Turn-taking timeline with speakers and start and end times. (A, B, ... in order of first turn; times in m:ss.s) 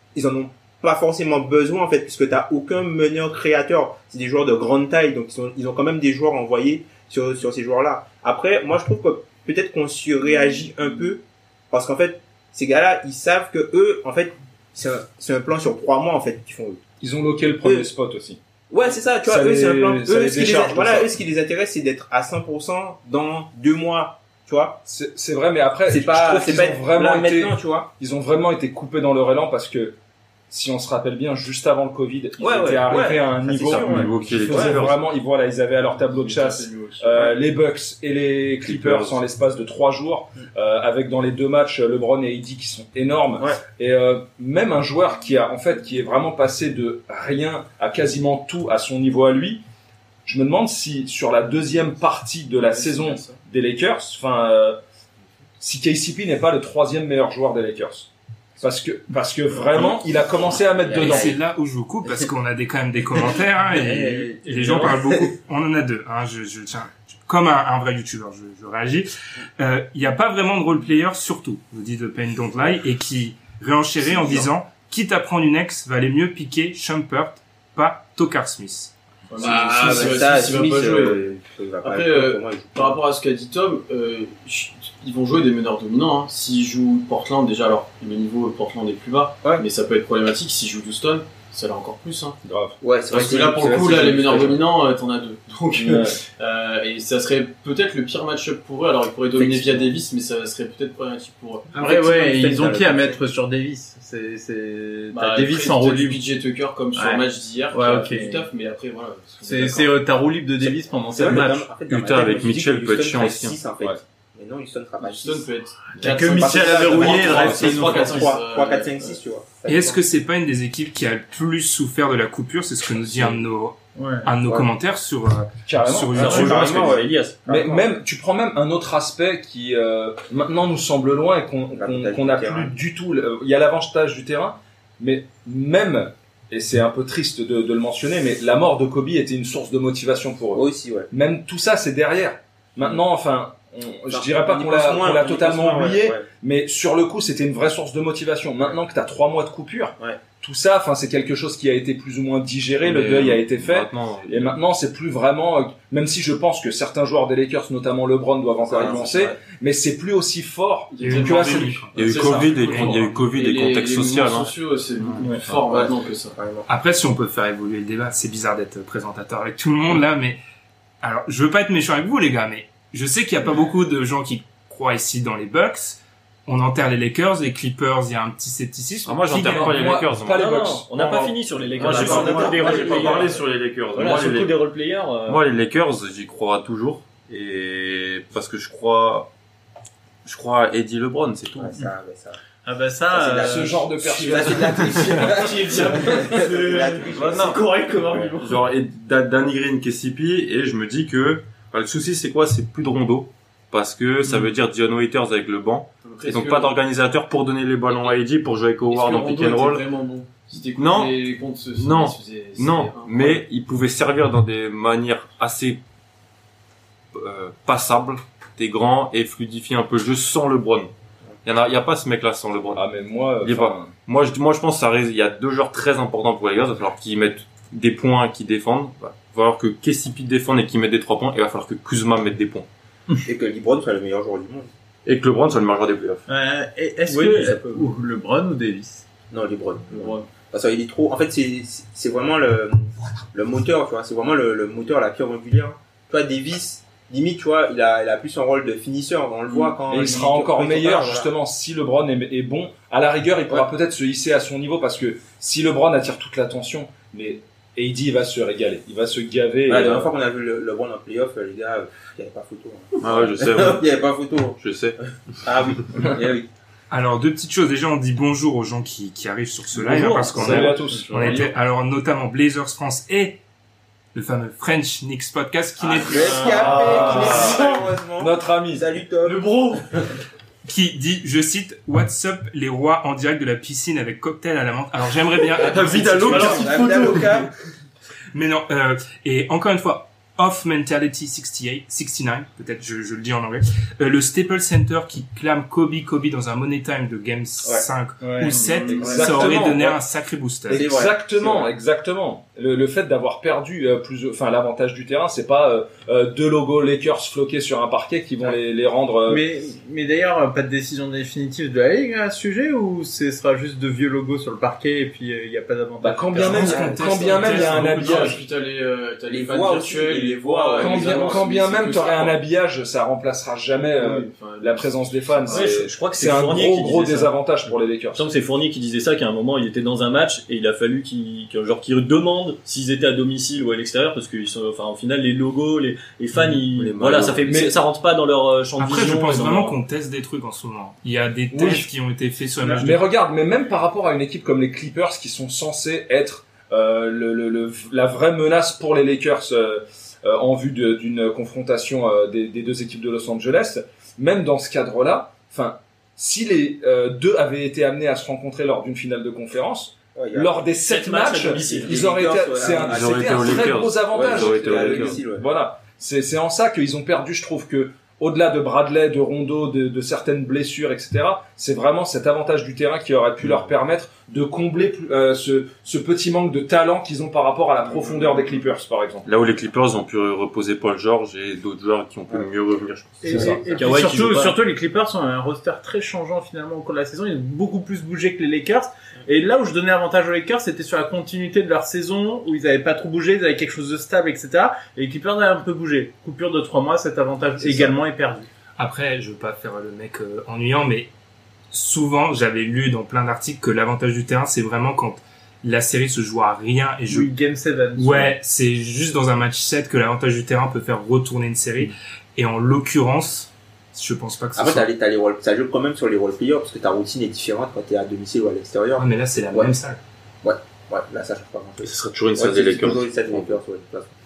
0:00.2-0:16.8 A
0:17.0-0:18.4 B
0:17.6-0:17.9 A
0:18.7-0:24.8 A
0:19.2-0:21.1 B
0:24.8-0:30.0 B
0:25.9-0:27.9 A
0:30.5-0:49.6 B
0:32.4-0:34.9 A
0:33.7-0:35.0 C
0:35.9-0:37.4 D
0:38.6-0:39.2 C
0:50.2-0:54.8 B
0:52.6-0:53.4 D
0:55.6-0:58.1 B
0:58.6-1:01.3 B
1:00.8-1:01.4 A
1:00.9-1:18.9 E
1:03.7-1:05.0 A
1:04.4-1:04.9 F
1:19.3-1:21.3 D
1:19.4-1:23.0 A
1:19.8-1:20.1 G
1:21.8-1:32.4 D
1:32.4-1:32.8 B
1:32.8-1:34.6 A
1:33.1-1:41.8 D
1:35.7-1:36.2 B
1:39.4-1:39.9 A
1:41.7-1:46.2 G
1:41.8-1:43.2 A
1:45.1-1:50.1 D
1:46.9-1:48.5 G
1:49.4-1:51.7 G
1:50.6-1:55.5 A
1:51.3-1:53.6 C
1:55.0-1:59.2 D
1:56.0-1:58.3 G
1:56.0-2:00.0 A
1:59.7-2:06.6 E
2:03.9-2:04.3 G
2:05.7-2:41.8 B
2:06.2-2:07.3 F
2:06.2-2:07.9 A
2:11.8-2:12.8 A
2:20.5-2:21.1 A
2:24.1-2:26.3 A
2:32.8-2:34.5 C
2:38.6-2:39.4 A
2:40.9-2:46.4 D
2:41.0-2:43.2 E
2:41.9-2:44.6 C
2:45.0-2:45.3 E
2:45.7-2:46.7 A
2:46.7-2:50.4 E
2:51.0-2:59.9 E
2:59.0-3:00.6 C
2:59.5-3:02.8 B
3:00.3-3:03.4 F
3:01.8-3:04.6 C
3:01.9-3:03.4 A
3:03.9-3:05.4 F
3:05.3-3:09.3 C
3:10.2-3:11.8 C
3:11.6-3:12.4 A
3:12.6-3:13.8 G
3:13.1-3:18.3 A
3:13.4-3:15.0 B
3:14.0-3:18.6 D
3:16.7-3:17.6 C
3:18.3-3:29.9 C
3:26.0-3:26.8 D
3:27.9-3:28.2 D
3:28.9-3:33.4 D
3:30.8-3:31.2 C
3:31.8-3:35.8 C
3:37.1-3:40.9 C
3:41.4-3:42.8 C
3:42.7-3:43.9 B
3:43.4-3:52.7 C
3:53.2-3:54.7 A
3:55.0-3:56.2 C
3:56.3-3:59.0 G
3:57.1-3:57.9 A
3:59.3-4:11.3 A
4:09.5-4:09.7 D
4:09.9-4:20.1 B
4:19.7-4:24.6 A
4:23.0-4:23.8 C
4:24.6-4:25.0 C
4:25.4-4:26.5 A
4:26.9-4:33.4 E
4:29.7-4:31.5 B
4:30.4-4:31.4 D
4:34.1-4:37.1 E
4:36.0-4:39.5 A
4:36.5-4:37.6 B
4:36.5-4:37.8 D
4:38.2-4:38.9 B
4:39.2-4:39.9 D
4:40.7-4:46.7 E
4:45.6-4:47.4 D
4:45.9-4:46.6 C
4:46.3-4:47.5 A
4:48.3-5:00.9 E
4:58.2-4:58.6 G
4:58.4-4:59.3 D
4:58.9-4:59.8 A
4:58.9-5:00.0 B
5:00.7-5:09.4 B
5:00.7-5:01.7 A
5:09.3-5:16.7 G
5:16.0-5:18.4 B
5:16.5-5:18.3 E
5:16.6-5:22.4 D
5:19.3-5:20.9 A
5:20.8-5:28.3 B
5:24.0-5:25.7 D
5:25.5-5:27.3 F
5:28.1-5:39.8 F
5:36.8-5:37.4 C
5:37.4-5:37.8 B
5:38.8-5:43.0 E
5:41.5-5:41.9 B
5:42.7-6:19.2 B
6:00.2-6:00.6 A
6:00.9-6:02.1 F
6:01.7-6:05.5 A
6:02.8-6:05.2 C
6:19.2-6:23.5 C
6:23.2-6:38.5 G
6:23.3-6:23.6 B
6:23.7-6:24.6 F
6:37.6-6:37.9 A
6:38.8-6:41.1 E
6:41.7-6:47.3 E
6:47.1-6:48.3 G
6:48.0-6:54.9 E
6:54.6-6:59.7 A
6:59.0-7:00.0 E
7:00.4-7:04.1 A
7:01.8-7:03.6 C